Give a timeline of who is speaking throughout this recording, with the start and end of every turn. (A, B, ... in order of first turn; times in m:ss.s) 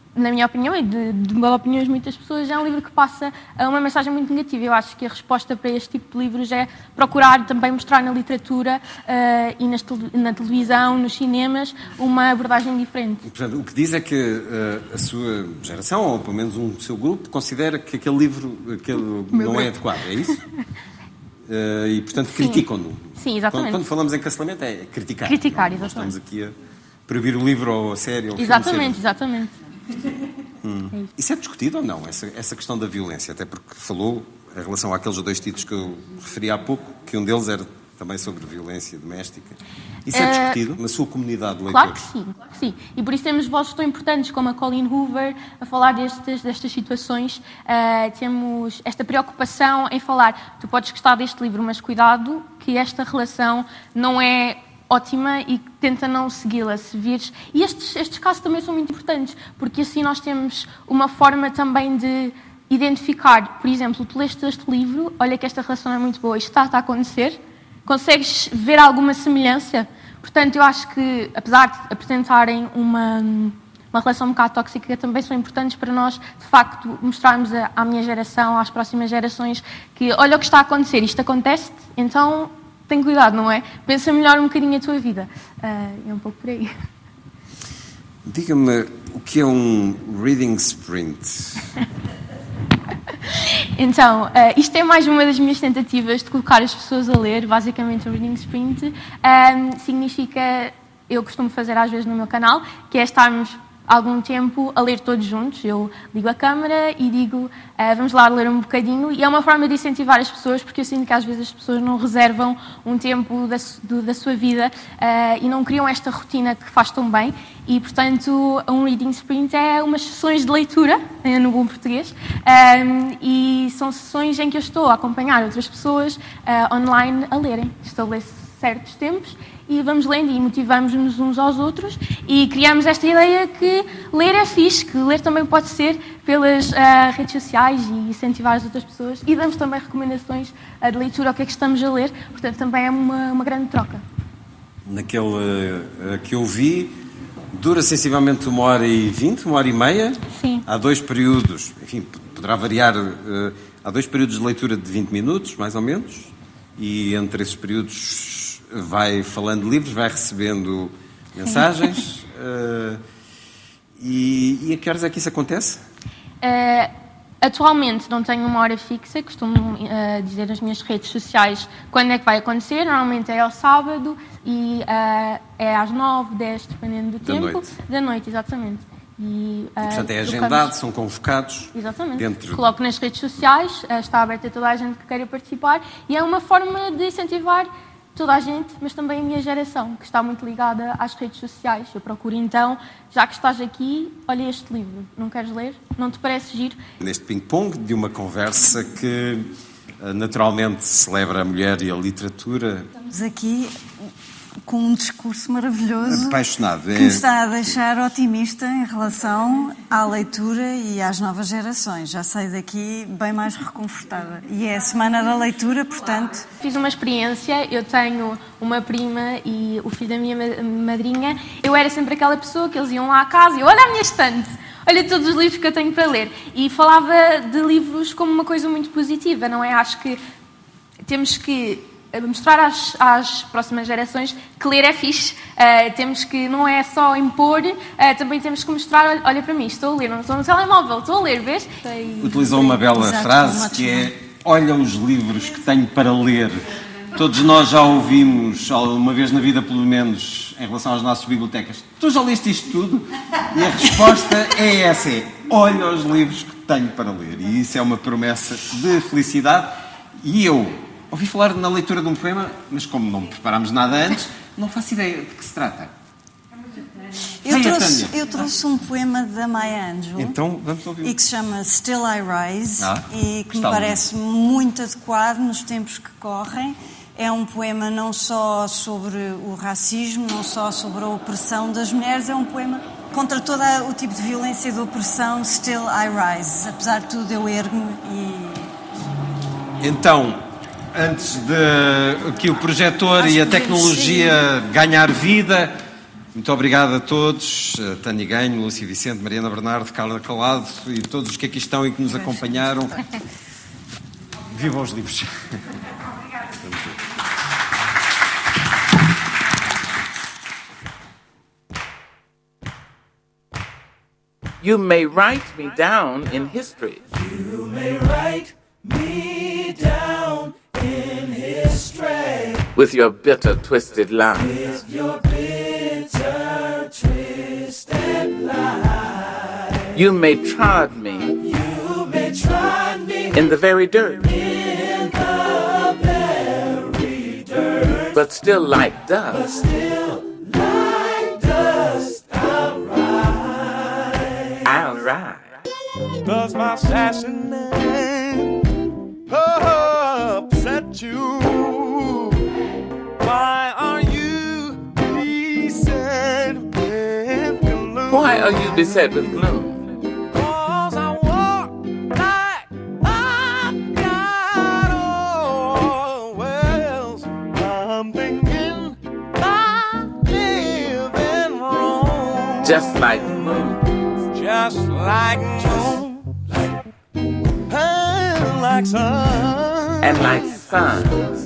0:00.2-0:13.2 A
0:13.2-0:20.4 B
0:19.3-0:20.1 A
0:21.5-0:26.5 B
0:22.3-0:22.6 A
0:23.2-0:23.8 A
0:25.2-0:26.1 A
0:27.1-0:29.0 B
0:28.3-0:29.5 A
0:30.6-0:42.0 B
0:40.1-0:40.6 A
0:41.7-1:26.7 A
1:28.2-1:31.6 B
1:33.8-2:24.0 A
2:24.8-2:27.0 B
2:27.5-2:43.0 B
2:30.3-2:30.6 A
2:44.0-2:45.8 B
2:46.4-2:46.9 A
2:47.4-3:00.7 A
2:57.2-2:57.8 B
2:59.8-3:02.7 B
3:01.7-3:16.8 A
3:17.0-3:22.9 B
3:23.1-3:23.7 C
3:24.6-3:26.4 C
3:26.0-3:27.8 B
3:26.9-3:36.5 C
3:36.6-3:50.2 A
3:51.1-4:02.4 A
4:02.2-4:25.9 B
4:02.8-4:04.1 C
4:27.4-4:30.4 C
4:27.4-4:28.1 B
4:30.1-4:31.2 B
4:31.0-4:48.7 C
4:32.8-4:34.0 B
4:49.8-4:55.8 B
4:53.2-4:54.0 C
4:56.3-5:02.9 B
5:04.5-5:05.3 B
5:06.6-5:06.9 B
5:14.6-5:17.1 D
5:17.5-5:20.5 E
5:21.4-5:22.2 E
5:22.7-5:24.8 D
5:29.9-5:31.4 D
5:32.0-5:32.4 E
5:33.3-5:34.5 D
5:38.1-5:39.6 D
5:41.2-5:42.6 E
5:44.6-5:45.5 D
5:46.2-5:48.6 E
5:49.3-5:52.4 E
5:53.2-5:59.4 E
5:58.1-5:59.8 D
6:00.3-6:12.9 E
6:12.6-6:13.8 D
6:14.3-6:16.3 E
6:17.7-6:20.6 E
6:20.0-6:21.2 D